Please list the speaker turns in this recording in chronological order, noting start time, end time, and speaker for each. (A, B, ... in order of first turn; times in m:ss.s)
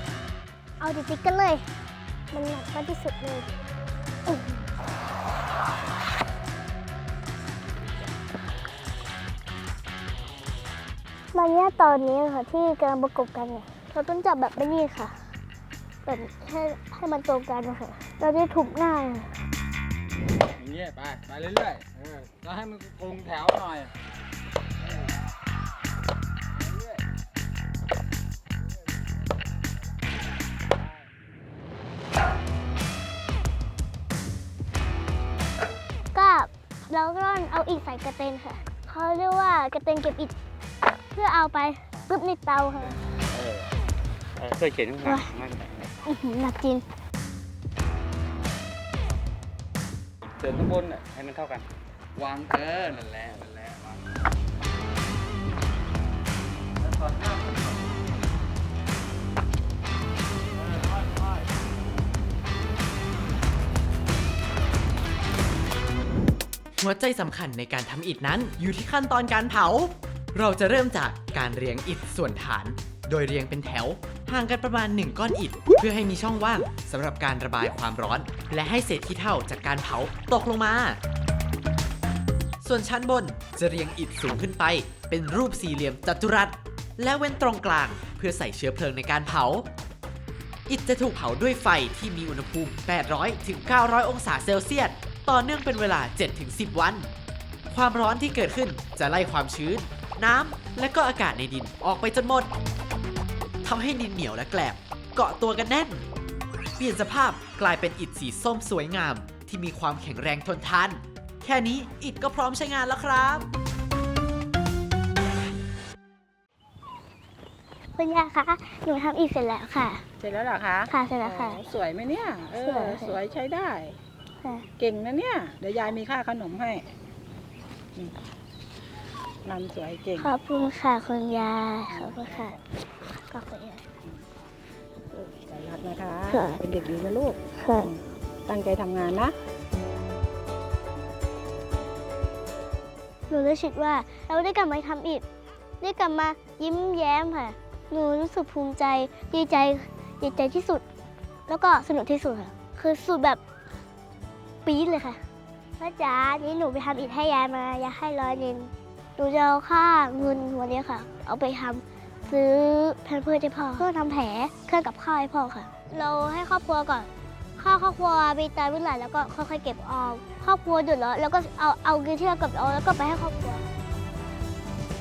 0:00.8-0:01.6 A
0:02.3-0:03.6 A
0:11.3-0:15.2 A
0:16.0-0:19.3 A
0:20.6-0:23.9 B
0:26.6-0:27.0 B
0:36.1-0:40.3 A
0:41.1-0:43.0 A
0:43.3-0:43.7 B
0:44.4-0:45.9 B
0:45.0-0:45.3 A
0:46.0-0:46.8 A
0:50.4-0:54.0 B
0:57.0-0:57.4 B
1:06.8-1:21.0 C
1:22.6-1:29.6 C
1:30.7-1:37.1 C
1:37.7-1:42.5 C
1:43.6-1:46.0 C
1:46.8-1:53.5 C
1:57.9-2:00.0 A
2:00.2-2:03.9 D
2:00.9-2:01.6 A
2:02.6-2:03.2 A
2:04.8-2:06.8 D
2:09.4-2:10.3 D
2:10.2-2:13.8 A
2:11.9-2:12.5 D
2:15.3-2:19.3 D
2:16.3-2:16.6 A
2:17.6-2:17.9 A
2:23.3-2:25.2 A
2:25.8-2:30.8 A
2:31.5-2:33.4 A
2:34.6-2:35.2 A
2:35.8-2:53.7 A